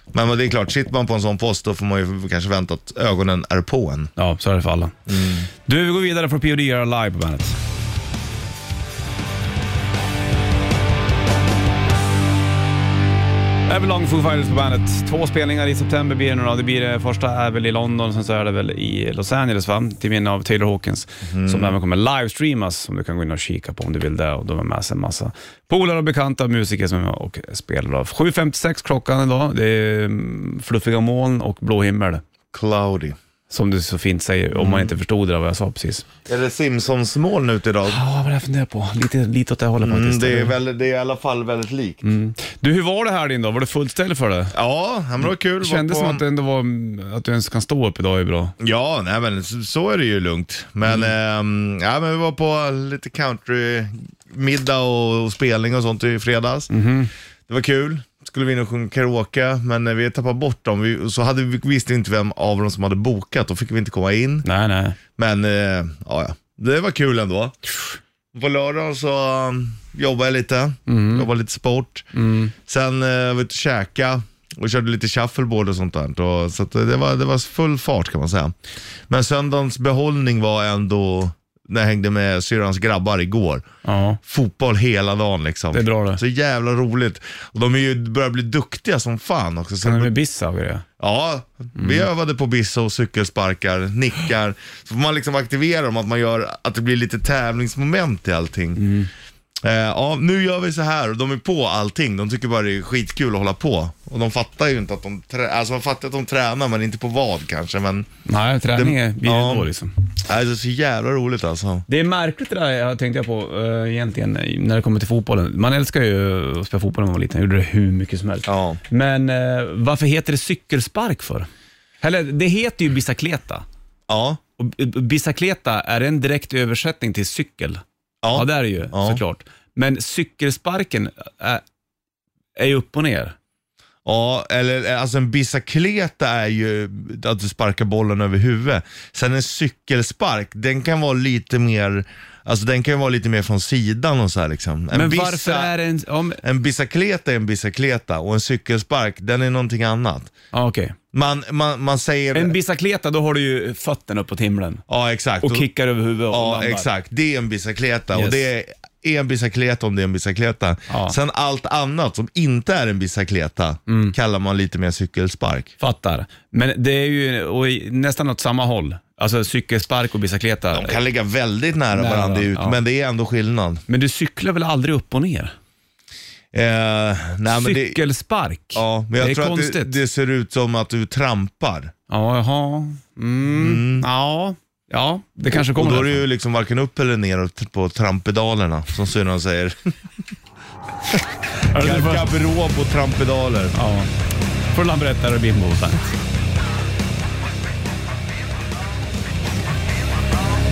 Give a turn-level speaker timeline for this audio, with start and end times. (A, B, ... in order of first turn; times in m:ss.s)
0:00.1-0:04.1 A
0:04.2-0:05.0 B
0:05.1-0:05.5 A
0:05.6-0:07.6 B
0:13.7-0:32.2 B
0:21.2-0:21.7 A
0:32.5-0:33.2 A
0:33.5-0:36.1 B
0:34.5-0:34.9 A
0:36.2-0:38.0 A
0:37.9-0:40.6 B
0:39.8-0:42.0 A
0:42.0-0:44.5 B
0:44.5-0:46.2 A
0:45.2-0:48.5 B
0:48.6-0:56.7 A
0:50.8-0:51.1 B
0:56.7-0:57.1 B
0:57.5-1:04.4 A
1:04.4-1:05.0 B
1:05.2-1:07.6 A
1:08.3-1:12.1 A
1:10.9-1:11.3 B
1:12.1-1:12.5 B
1:12.6-1:18.5 A
1:19.1-1:23.6 A
1:23.8-1:24.2 B
1:24.2-1:30.1 A
1:25.7-1:26.2 B
1:29.8-1:30.8 B
1:31.0-1:38.8 A
1:31.8-1:32.0 B
1:38.8-1:39.1 B
1:39.6-1:48.1 A
1:48.2-1:49.9 B
1:48.7-1:49.7 A
1:50.2-1:51.8 A
1:51.9-2:01.5 B
1:58.4-1:58.8 A
2:02.0-2:03.6 B
2:04.1-2:04.4 A
2:04.6-2:11.6 B
2:08.2-2:09.2 A
2:12.6-2:13.3 B
2:14.0-2:25.7 A
2:24.9-2:26.4 B
2:26.4-2:30.3 A
2:30.5-2:31.0 B
2:31.1-2:32.5 A
2:32.3-2:34.8 B
2:34.9-2:35.7 A
2:35.4-2:36.9 B
2:36.3-2:45.7 A
2:38.1-2:38.4 B
2:40.9-2:41.2 B
2:43.9-2:44.1 B
2:45.8-2:51.0 B
2:50.7-2:53.8 A
2:51.9-2:52.8 B
2:53.9-2:55.5 B
2:56.5-2:58.0 A
2:57.4-3:00.0 B
2:58.7-3:01.9 A
3:02.1-3:06.2 B
3:03.5-3:04.1 A
3:05.5-3:09.9 A
3:11.6-3:12.3 B
3:11.7-3:13.8 A
3:13.7-3:14.1 B
3:14.7-3:16.2 B